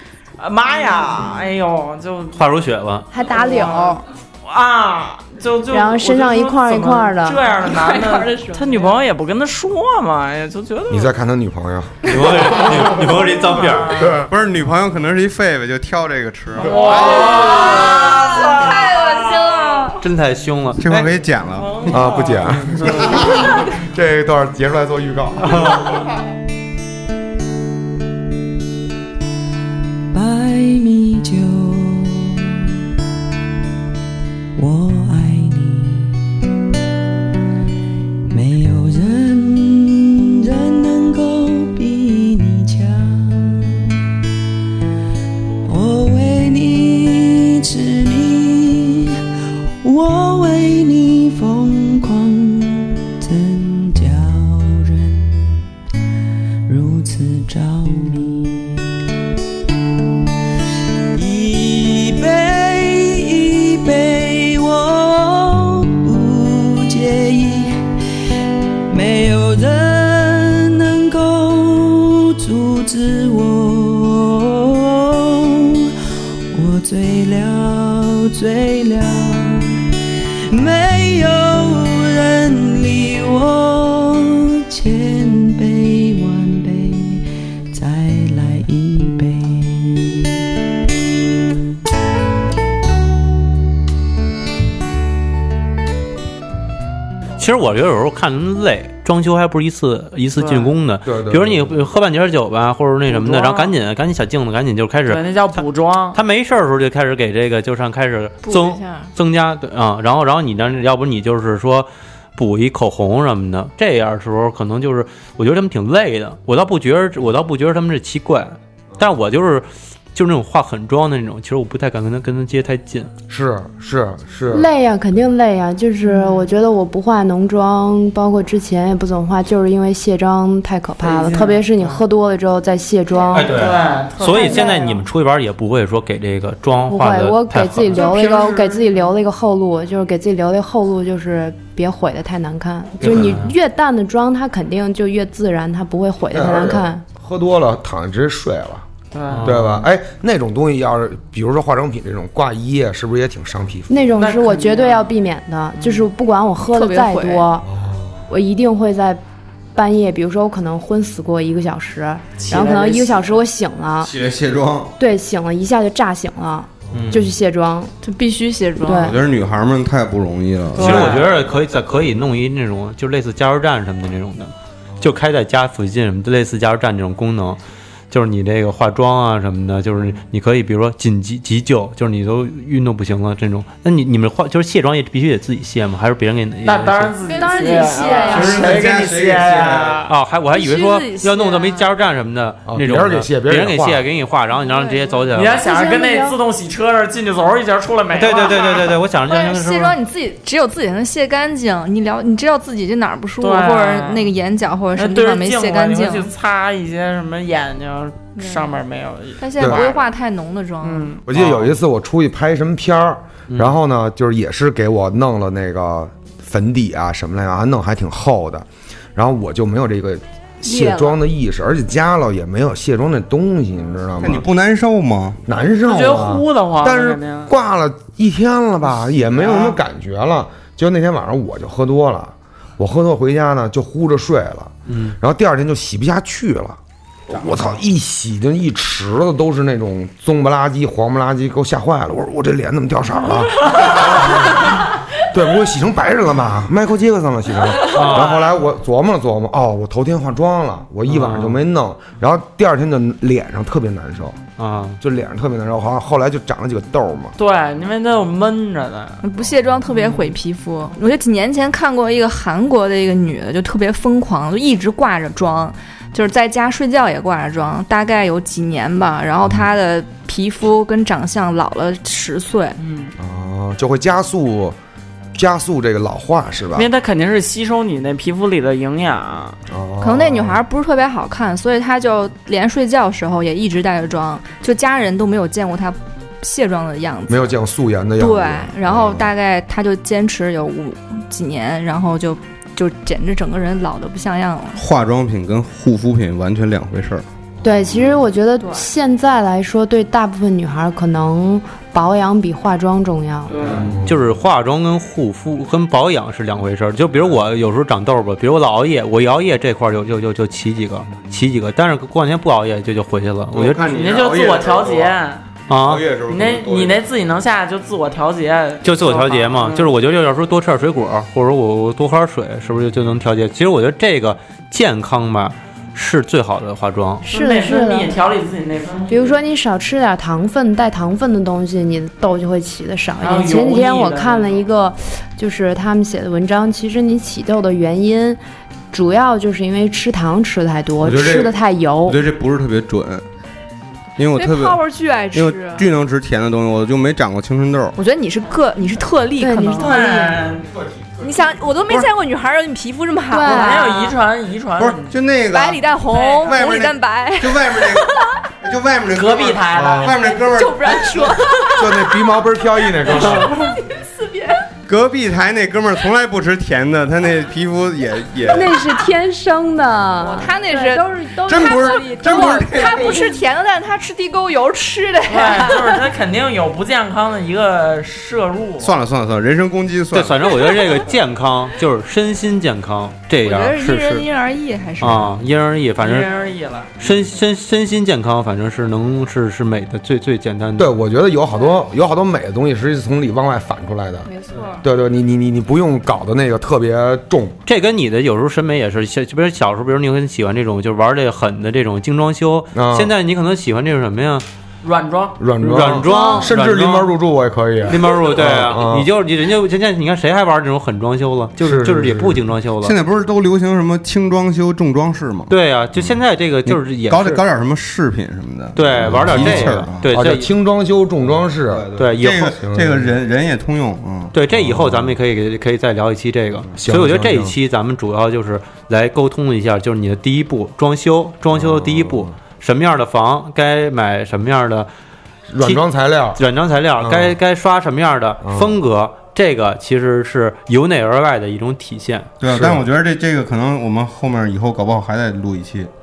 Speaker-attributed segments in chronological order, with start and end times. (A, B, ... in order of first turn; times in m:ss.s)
0:00.4-0:02.4 A
0:02.3-0:03.1 B
0:03.1-0:04.0 C
0:03.2-0:11.1 A
0:05.7-0:07.5 C
0:07.6-0:09.0 D
0:10.9-0:12.3 E
0:12.1-0:14.1 B
0:13.1-0:14.2 A
0:14.0-0:14.3 E
0:14.2-0:17.4 F
0:16.6-0:19.9 A
0:16.8-0:20.0 D
0:20.0-0:21.1 B
0:20.8-0:22.1 F
0:21.5-0:22.6 A
0:21.9-0:25.8 E
0:22.9-0:23.4 F
0:25.4-0:25.9 B
0:30.1-0:31.9 G
0:34.6-0:35.9 G
0:38.3-0:39.6 G
0:41.0-0:42.9 G
0:45.7-0:47.1 G
0:49.8-0:52.3 G
0:53.3-0:54.8 G
0:56.7-0:57.9 G
1:01.2-1:02.8 G
1:03.9-1:05.4 G
1:06.0-1:07.5 G
1:08.9-1:10.3 G
1:11.0-1:11.8 G
1:12.5-1:13.9 G
1:16.6-1:19.3 G
1:20.6-1:21.6 G
1:22.2-1:24.0 G
1:24.8-1:26.8 G
1:27.8-1:29.3 G
1:37.4-2:03.1 B
1:40.4-1:40.7 A
1:41.0-1:41.7 E
1:43.1-1:43.8 A
1:45.1-1:46.2 A
1:48.4-1:49.1 D
2:03.3-2:04.7 E
2:04.5-2:13.6 C
2:06.1-2:06.4 A
2:11.0-2:12.0 A
2:13.3-2:15.0 A
2:13.3-2:18.0 B
2:16.9-2:27.0 C
2:17.9-2:19.0 A
2:23.0-2:23.5 B
2:26.3-2:28.9 E
2:29.1-2:29.6 A
2:29.3-2:29.8 B
2:29.4-2:34.1 E
2:33.9-2:37.7 C
2:34.1-2:35.1 A
2:35.8-2:36.1 A
2:36.7-2:37.5 D
2:37.7-2:38.2 E
2:38.3-2:39.2 C
2:39.8-2:44.1 C
2:42.5-2:43.4 A
2:44.0-2:44.9 F
2:45.0-2:47.9 C
2:46.9-2:47.3 B
2:48.0-2:49.1 D
2:48.8-2:49.2 C
2:49.0-2:51.3 F
2:50.7-2:51.3 A
2:50.8-2:57.6 B
2:58.1-3:07.1 B
3:06.6-3:10.1 A
3:07.3-3:08.7 D
3:07.4-3:08.8 C
3:08.3-3:10.0 F
3:10.1-3:15.6 B
3:10.5-3:11.9 D
3:12.6-3:14.0 E
3:14.5-3:15.3 D
3:15.3-3:18.9 A
3:15.6-3:16.4 C
3:18.1-3:20.0 B
3:18.4-3:26.3 D
3:23.4-3:24.3 A
3:24.9-3:30.1 A
3:28.4-3:28.8 D
3:29.4-3:31.1 D
3:29.6-3:29.8 E
3:30.8-3:31.2 A
3:31.3-3:44.4 E
3:31.3-3:31.8 B
3:33.5-3:33.8 B
3:40.6-3:41.2 D
3:44.2-3:45.4 F
3:45.5-3:56.8 E
3:45.8-3:47.5 A
3:49.3-3:49.8 A
3:54.9-3:55.2 B
3:57.3-4:14.4 E
4:07.9-4:08.5 B
4:11.1-4:11.6 B
4:14.6-4:15.0 B
4:15.0-4:17.4 E
4:17.4-4:19.2 A
4:19.2-4:32.8 D
4:19.9-4:20.3 A
4:32.8-4:33.1 A
4:33.2-4:34.8 E
4:35.4-4:36.9 E
4:36.7-4:39.6 A
4:39.7-4:40.6 E
4:40.0-4:47.5 D
4:47.3-4:49.3 E
4:48.2-4:54.8 D
4:54.8-4:57.2 F
4:57.6-4:58.2 E
4:57.6-5:03.6 C
5:03.5-5:03.8 A
5:03.6-5:04.2 E
5:04.0-5:13.9 B
5:13.5-5:15.2 F
5:13.9-5:15.4 A
5:15.7-5:16.1 B
5:15.7-5:17.1 F
5:16.3-5:19.9 A
5:18.8-5:27.2 B
5:27.2-5:28.1 C
5:27.3-5:29.4 A
5:29.1-5:38.4 C
5:33.2-5:34.6 A
5:38.9-5:42.2 C
5:41.0-5:43.2 F
5:44.2-5:44.8 F
5:44.3-5:45.9 D
5:45.3-5:48.0 F
5:48.0-5:50.0 D
5:49.4-5:50.4 C
5:49.7-5:50.7 A
5:51.2-5:54.1 D
5:53.3-5:54.1 C
5:53.4-5:55.2 A
5:54.8-6:01.3 F
5:55.5-5:58.4 D
5:56.1-5:56.7 A
5:59.1-6:00.4 A
5:59.8-6:00.1 E
6:00.3-6:02.5 D
6:01.8-6:03.5 E
6:03.0-6:04.7 D
6:04.9-6:08.7 F
6:08.4-6:13.2 C
6:10.2-6:16.0 D
6:11.4-6:13.3 F
6:15.3-6:18.9 A
6:18.8-6:20.7 F
6:20.1-6:24.3 B
6:23.4-6:25.3 D
6:25.0-6:26.3 B
6:26.0-6:27.2 A
6:27.0-6:30.9 B
6:30.8-6:34.3 E
6:34.2-6:34.8 D
6:34.8-6:37.6 E
6:37.7-6:44.4 B
6:42.7-6:43.1 E
6:44.8-6:45.4 A
6:45.4-6:49.1 E
6:45.6-6:47.1 B
6:46.0-6:46.5 D
6:47.8-6:53.0 B
6:51.6-6:52.4 E
6:52.8-7:00.0 F
6:55.5-6:57.4 B
6:58.8-7:00.5 B
6:59.0-7:01.9 E
7:01.7-7:04.3 F
7:02.0-7:02.6 B
7:02.4-7:03.1 E
7:04.3-7:14.9 B
7:04.5-7:05.0 E
7:06.8-7:07.6 E
7:11.5-7:12.3 E
7:15.5-7:16.4 E
7:16.3-7:22.3 B
7:17.0-7:17.4 E
7:18.4-7:18.8 E
7:22.4-7:25.9 F
7:22.5-7:22.8 E